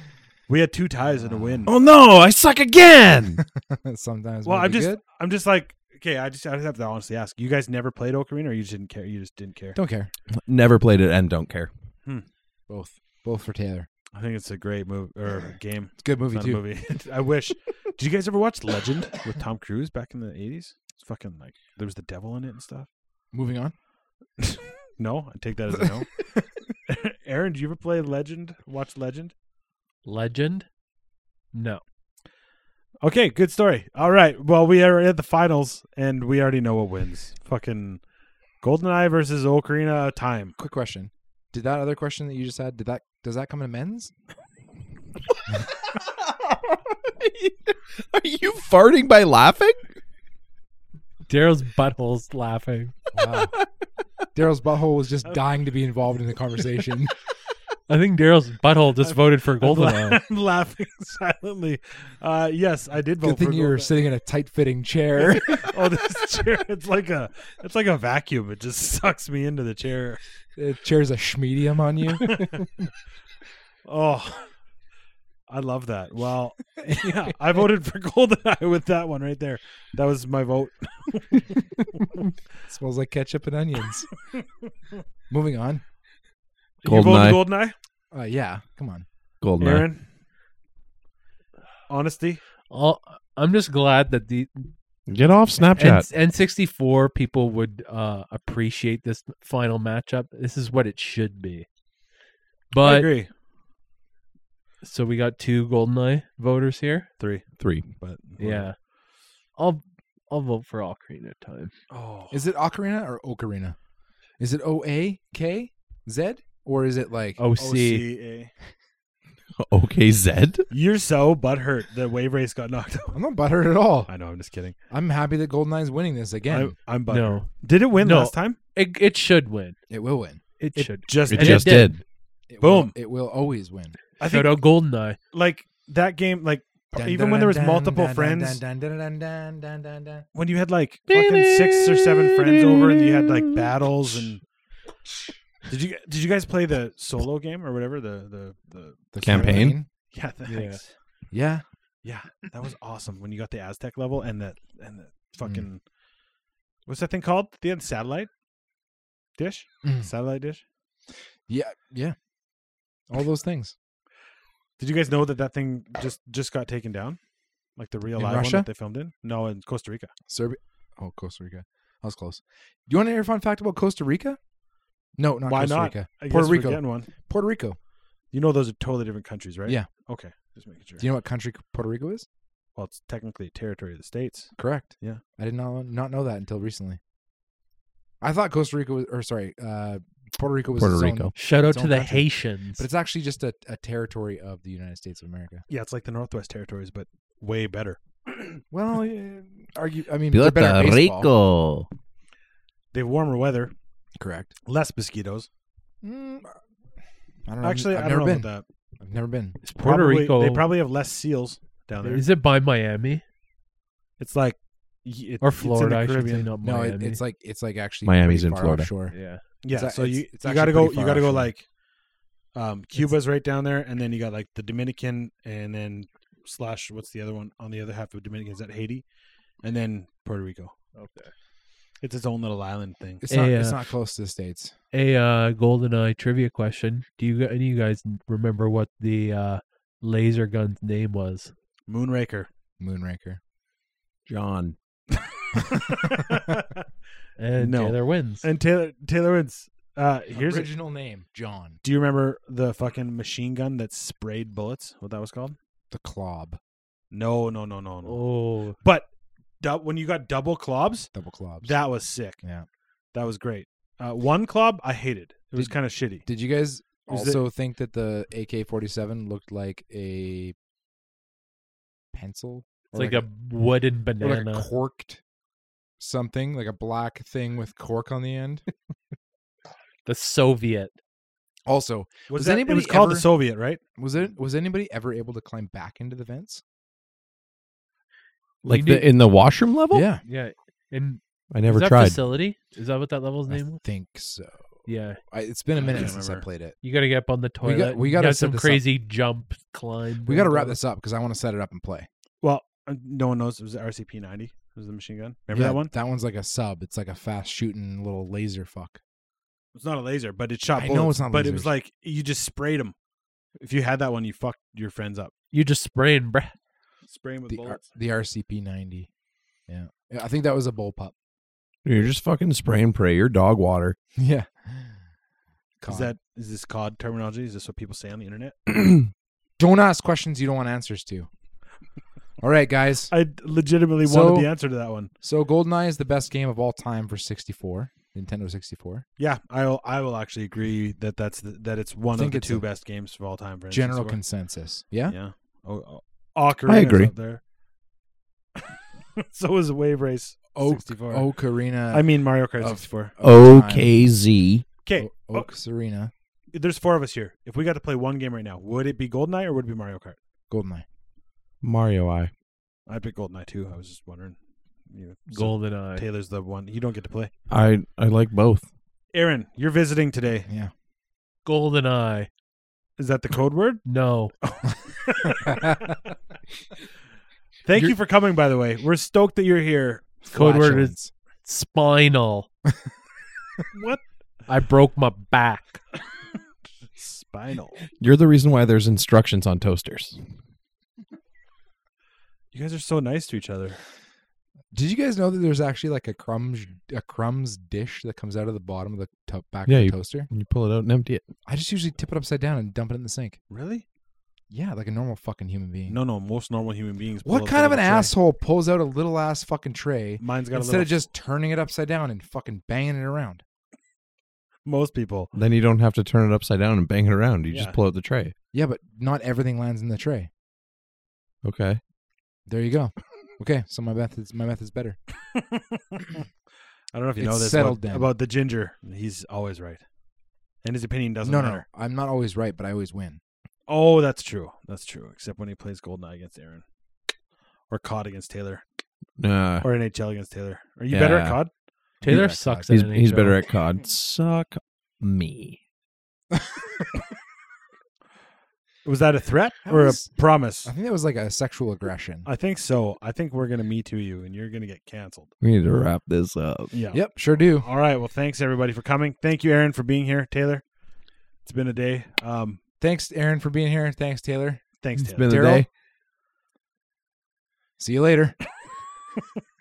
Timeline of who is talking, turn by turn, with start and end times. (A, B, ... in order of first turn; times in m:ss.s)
0:00.5-0:01.7 A
0:01.2-0:01.7 B
0:01.7-0:03.4 C
0:03.4-0:05.0 B
0:04.4-0:09.8 A
0:09.7-0:10.1 B
0:10.4-0:11.7 C
0:12.7-0:13.9 B
0:14.1-0:22.9 A
0:16.0-0:16.6 B
0:23.3-0:23.7 B
0:24.5-0:26.3 A
0:26.9-0:29.3 A
0:30.0-0:30.6 D
0:31.5-0:31.8 D
0:33.0-0:38.0 A
0:38.6-0:40.5 A
0:40.6-0:44.1 B
0:45.5-0:49.8 C
0:51.3-0:53.0 D
0:53.1-0:53.5 B
0:54.3-0:57.2 B
0:57.9-1:00.2 D
0:59.0-1:03.9 A
1:03.2-1:05.8 B
1:05.2-1:10.2 A
1:10.6-1:12.4 B
1:12.3-1:12.6 A
1:13.8-1:14.5 A
1:15.5-1:22.2 A
1:22.7-1:24.1 B
1:25.3-1:25.8 B
1:26.8-1:27.7 A
1:26.8-1:27.4 C
1:28.1-1:29.0 B
1:29.4-1:29.8 C
1:29.6-1:30.0 A
1:31.9-1:32.4 A
1:32.7-1:34.7 D
1:35.1-1:36.1 C
1:35.7-1:41.7 D
1:42.7-1:43.1 D
1:42.8-1:43.3 A
1:44.8-1:47.1 D
1:47.2-1:48.6 A
1:47.6-1:47.9 C
1:48.4-1:48.8 D
1:49.6-1:51.7 D
1:51.9-1:52.4 A
1:52.3-1:53.8 B
1:54.4-1:57.4 B
1:57.4-1:58.1 D
1:57.6-1:58.5 A
1:59.6-2:00.7 C
2:00.7-2:03.2 A
2:03.1-2:04.1 B
2:04.1-2:04.8 A
2:04.9-2:06.7 B
2:06.5-2:08.6 A
2:07.1-2:09.8 D
2:09.9-2:10.4 B
2:10.6-2:11.9 D
2:10.8-2:11.9 A
2:11.3-2:12.0 C
2:12.5-2:14.0 B
2:12.6-2:12.9 A
2:14.2-2:14.6 A
2:14.2-2:15.2 D
2:15.3-2:18.6 A
2:16.9-2:20.2 B
2:20.3-2:24.4 A
2:21.1-2:24.2 C
2:25.7-2:30.9 A
2:29.1-2:29.9 B
2:29.2-2:29.8 C
2:30.5-2:30.8 D
2:31.3-2:31.6 B
2:32.0-2:35.8 A
2:36.8-2:38.3 A
2:39.4-2:40.6 A
2:39.8-2:40.1 B
2:41.5-2:42.2 B
2:43.1-2:43.7 B
2:44.8-2:47.2 A
2:47.8-2:50.1 A
2:48.2-2:48.7 B
2:50.3-2:54.4 B
2:55.2-2:57.8 B
2:55.5-2:57.1 A
2:58.3-3:01.0 A
3:01.0-3:02.2 B
3:02.8-3:05.2 A
3:04.6-3:07.0 B
3:08.2-3:15.6 B
3:10.8-3:11.3 C
3:11.3-3:12.8 D
3:15.7-3:18.6 A
3:18.7-3:21.3 B
3:20.3-3:21.9 C
3:22.9-3:23.7 A
3:24.2-3:24.5 B
3:24.6-3:25.5 A
3:26.0-3:26.6 B
3:27.4-3:28.5 B
3:27.6-3:28.6 A
3:29.0-3:29.6 B
3:29.6-3:30.7 D
3:29.8-3:32.2 A
3:32.0-3:33.2 D
3:34.2-3:36.5 A
3:35.4-3:37.2 D
3:36.6-3:39.1 B
3:38.0-3:38.9 C
3:39.1-3:39.4 D
3:39.6-3:41.6 A
3:39.7-3:41.5 B
3:42.5-3:49.0 A
3:49.6-3:50.7 A
3:50.9-3:51.3 D
3:52.0-3:53.2 A
3:53.2-3:54.7 B
3:53.3-3:53.8 D
3:54.9-4:01.5 D
4:01.9-4:02.5 A
4:02.8-4:03.4 B
4:04.3-4:04.8 C
4:05.5-4:06.8 A
4:07.4-4:08.5 D
4:07.6-4:10.7 A
4:10.3-4:11.8 B
4:11.8-4:15.6 A
4:15.9-4:16.6 B
4:17.1-4:19.1 A
4:18.0-4:18.8 D
4:19.6-4:21.1 A
4:21.1-4:21.8 B
4:21.6-4:22.4 A
4:23.1-4:26.3 A
4:25.5-4:30.5 B
4:27.1-4:27.4 A
4:32.1-4:33.2 B
4:32.9-4:34.7 D
4:34.2-4:35.2 B
4:36.0-4:38.6 B
4:40.0-4:40.9 D
4:41.6-4:43.3 B
4:42.3-4:43.8 A
4:44.0-4:46.6 B
4:48.6-4:50.0 C
4:48.7-4:49.1 D
4:49.9-4:50.2 B
4:50.2-4:53.8 D
4:51.5-4:52.2 C
4:53.5-4:56.8 B
4:54.8-4:55.2 D
4:55.8-4:56.4 A
4:56.8-5:00.8 D
4:57.6-4:58.8 B
5:00.2-5:02.1 B
5:02.4-5:05.9 A
5:05.5-5:09.0 B
5:09.7-5:12.9 A
5:10.8-5:11.7 B
5:13.6-5:15.3 A
5:15.5-5:16.5 D
5:17.1-5:17.9 A
5:17.5-5:19.1 B
5:19.7-5:21.1 B
5:21.8-5:24.0 C
5:24.2-5:25.0 B
5:25.8-5:26.1 B
5:25.8-5:28.6 A
5:29.6-5:31.3 B
5:32.4-5:33.1 B
5:33.1-5:35.1 A
5:34.0-5:34.5 B
5:35.2-5:39.0 B
5:39.2-5:44.2 A
5:42.1-5:42.6 B
5:43.7-5:45.1 B
5:45.1-5:47.4 A
5:46.7-5:47.1 C
5:49.2-5:51.3 A
5:50.5-5:53.9 B
5:51.9-5:53.1 A
5:53.2-5:54.6 C
5:54.8-5:55.5 A
5:55.0-5:56.1 B
5:56.5-6:00.2 A
6:00.5-6:00.8 B
6:01.6-6:02.3 C
6:02.9-6:07.3 A
6:05.3-6:06.0 D
6:07.5-6:08.6 C
6:09.1-6:10.4 A
6:10.5-6:10.7 B
6:11.4-6:12.3 D
6:13.0-6:13.8 A
6:13.8-6:14.3 D
6:14.4-6:16.0 A
6:15.4-6:15.8 B
6:17.6-6:20.2 A
6:20.2-6:21.1 B
6:20.3-6:22.5 D
6:23.7-6:24.0 A
6:24.5-6:25.8 D
6:27.0-6:27.8 A
6:28.0-6:30.2 C
6:32.5-6:33.8 A
6:34.7-6:40.3 B
6:39.6-6:41.3 C
6:41.4-6:43.4 B
6:43.5-6:43.8 A
6:44.5-6:46.0 B
6:45.9-6:48.1 A
6:47.2-6:53.4 B
6:50.2-6:50.9 A
6:54.6-6:55.3 A
6:55.3-6:58.3 C
6:57.5-6:57.8 A
6:58.5-7:00.3 B
7:01.4-7:01.8 C
7:02.4-7:05.0 B
7:05.3-7:06.2 A
7:06.9-7:09.8 A
7:07.2-7:08.1 B
7:10.6-7:11.6 A
7:11.2-7:13.2 B
7:13.7-7:16.6 A
7:17.7-7:18.6 A
7:19.2-7:19.6 C
7:19.6-7:21.5 A
7:20.9-7:21.4 C
7:22.0-7:22.7 B
7:22.0-7:23.4 D
7:22.7-7:25.6 C
7:26.3-7:26.9 B
7:28.8-7:30.7 A
7:29.6-7:32.3 B
7:32.2-7:35.3 A
7:35.4-7:36.7 C
7:36.7-7:40.6 A
7:36.9-7:37.7 B
7:41.4-7:42.6 A
7:42.8-7:44.6 B
7:44.8-7:45.3 A
7:45.0-7:45.7 C
7:45.2-7:45.7 B
7:47.8-7:48.4 B